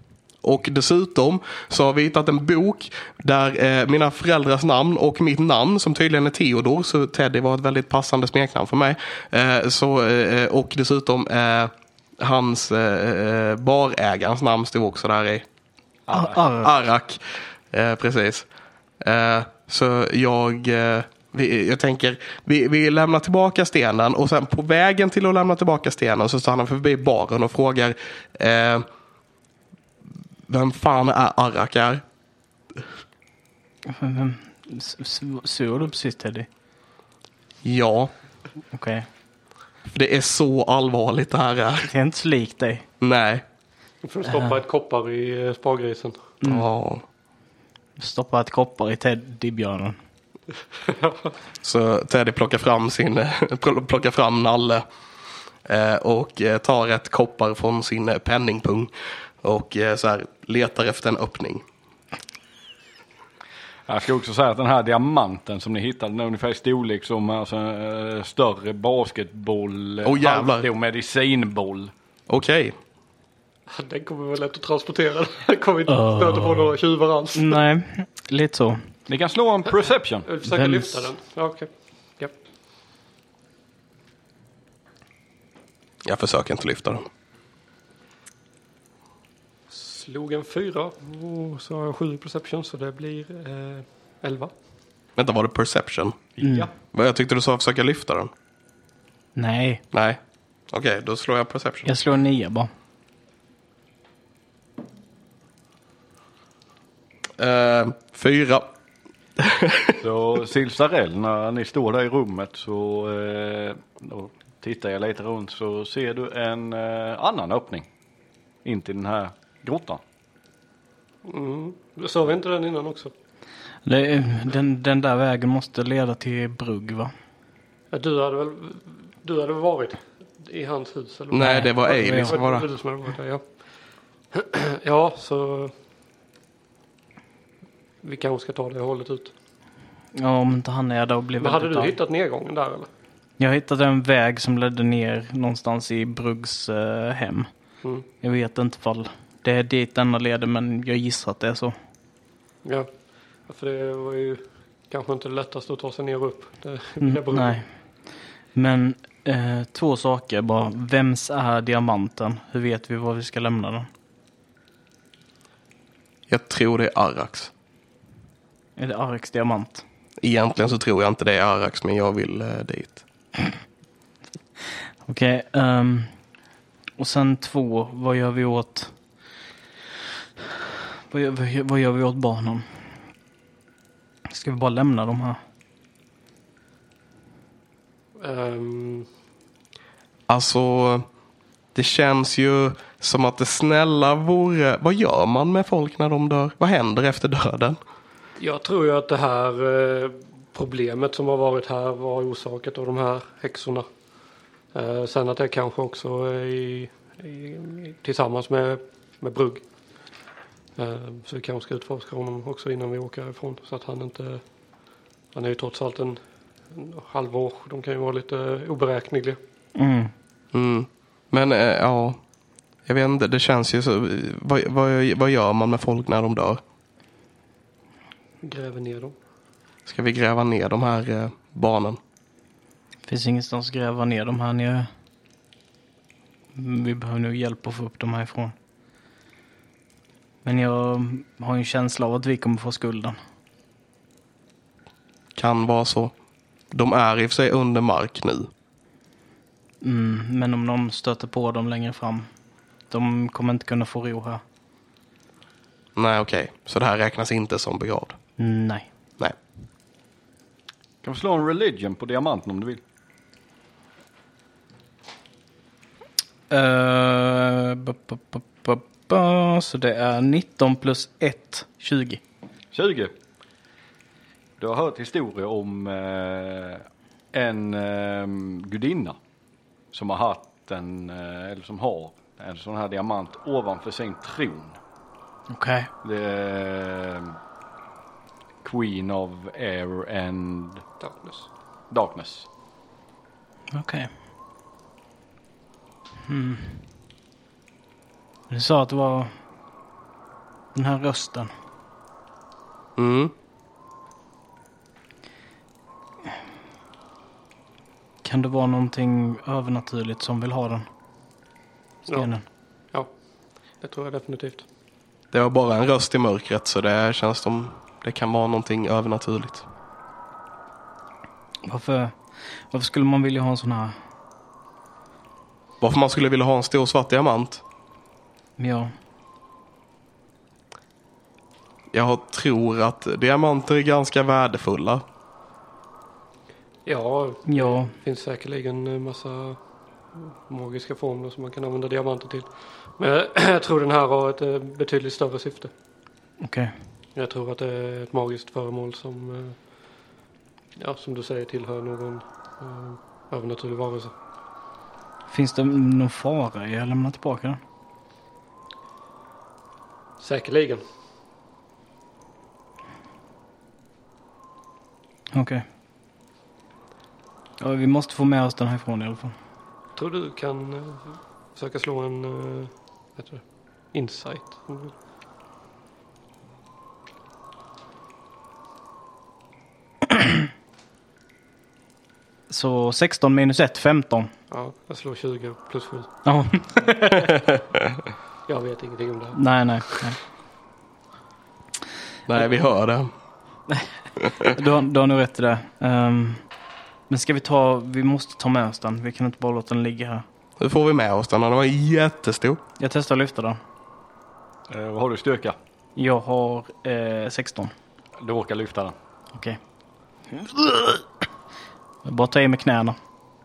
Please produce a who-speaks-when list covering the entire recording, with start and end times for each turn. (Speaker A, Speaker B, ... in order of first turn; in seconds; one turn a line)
Speaker A: 0.4-15.4
Speaker B: 16.1-16.4
Speaker C: 16.1-16.7
Speaker A: 16.6-17.2
Speaker A: 17.7-18.5
Speaker A: 19.0-28.9
Speaker A: 30.5-32.0
Speaker C: 33.9-36.5
Speaker A: 37.6-38.1
Speaker C: 38.7-39.1
Speaker A: 39.9-41.9
Speaker C: 41.9-42.9
Speaker A: 43.0-43.4
Speaker D: 44.0-46.2
Speaker C: 44.3-44.6
Speaker C: 46.4-46.7
Speaker A: 46.4-47.0
Speaker C: 48.0-50.0
Speaker D: 50.9-51.3
Speaker A: 51.6-54.9
Speaker A: 55.7-58.9
Speaker A: 59.4-61.6
Speaker B: 63.9-71.9
Speaker A: 70.0-70.7
Speaker A: 72.3-72.8
Speaker D: 73.7-77.6
Speaker C: 75.9-76.7
Speaker C: 77.3-78.8
Speaker B: 79.1-80.3
Speaker D: 80.3-82.3
Speaker C: 80.4-81.1
Speaker A: 86.0-87.1
Speaker D: 89.7-94.5
Speaker A: 95.2-96.3
Speaker B: 96.4-96.7
Speaker C: 96.4-96.7
Speaker A: 96.9-98.3
Speaker C: 99.4-99.8
Speaker A: 99.9-100.2
Speaker A: 100.7-101.9
Speaker C: 101.9-102.7
Speaker A: 107.4-108.7
Speaker A: 109.4-110.0
Speaker B: 110.0-117.9
Speaker B: 118.7-120.0
Speaker D: 121.2-123.1
Speaker C: 123.8-127.1
Speaker D: 127.9-133.4
Speaker A: 131.3-132.7
Speaker C: 131.4-132.4
Speaker D: 134.3-135.7
Speaker D: 138.0-139.3
Speaker C: 140.2-141.9
Speaker D: 141.4-142.9
Speaker C: 143.4-147.5
Speaker C: 148.2-151.8
Speaker D: 153.5-157.6
Speaker C: 157.0-157.6
Speaker C: 158.6-163.9
Speaker A: 166.3-167.5
Speaker C: 168.8-169.8
Speaker A: 170.2-173.0
Speaker C: 175.1-176.1
Speaker C: 177.0-178.9
Speaker C: 181.1-182.7
Speaker C: 184.3-185.4
Speaker D: 188.2-189.1
Speaker A: 190.3-191.1
Speaker A: 191.8-197.8
Speaker D: 198.4-203.9
Speaker D: 204.7-209.6
Speaker D: 210.8-214.4
Speaker D: 215.3-216.2
Speaker D: 216.7-219.4
Speaker C: 219.8-220.1
Speaker A: 220.5-222.2
Speaker A: 222.9-226.6
Speaker D: 228.4-229.2
Speaker A: 229.9-232.0
Speaker C: 233.1-234.9
Speaker C: 236.6-238.5
Speaker C: 240.4-243.2
Speaker A: 245.4-246.1
Speaker A: 246.7-248.5
Speaker C: 249.8-252.3
Speaker C: 252.9-254.4
Speaker A: 256.0-258.2
Speaker C: 258.4-258.9
Speaker B: 261.0-262.8
Speaker C: 266.5-272.2
Speaker B: 272.7-273.1
Speaker B: 274.6-279.2
Speaker B: 279.9-284.8
Speaker C: 285.5-285.9
Speaker B: 286.0-287.4
Speaker B: 288.6-290.8
Speaker D: 291.0-291.5
Speaker B: 291.9-292.5
Speaker C: 293.7-294.1
Speaker C: 296.3-296.8
Speaker C: 298.5-299.3
Speaker C: 300.7-301.5
Speaker A: 303.0-303.3
Speaker C: 308.2-310.9
Speaker C: 312.1-312.4
Speaker D: 313.8-314.7
Speaker A: 315.3-319.6
Speaker C: 321.6-322.1
Speaker C: 322.7-324.0
Speaker A: 325.8-327.6
Speaker C: 328.6-328.9
Speaker A: 331.9-335.0
Speaker D: 336.9-339.6
Speaker C: 337.5-337.9
Speaker D: 340.1-345.7
Speaker C: 346.4-346.7
Speaker D: 347.1-349.6
Speaker D: 350.8-354.1
Speaker C: 355.3-357.6
Speaker D: 360.2-360.8
Speaker C: 365.3-365.6
Speaker C: 367.6-369.3
Speaker D: 370.0-374.9
Speaker C: 382.5-384.3
Speaker D: 384.5-386.1
Speaker C: 386.2-387.3
Speaker A: 387.5-387.8
Speaker D: 388.5-389.4
Speaker C: 389.4-390.2
Speaker A: 392.3-393.1
Speaker C: 394.4-396.4
Speaker C: 397.1-400.2
Speaker A: 400.6-402.6
Speaker C: 402.8-403.6
Speaker B: 404.7-405.6
Speaker C: 406.0-407.7
Speaker B: 408.2-408.9
Speaker C: 410.3-411.0
Speaker C: 412.0-413.0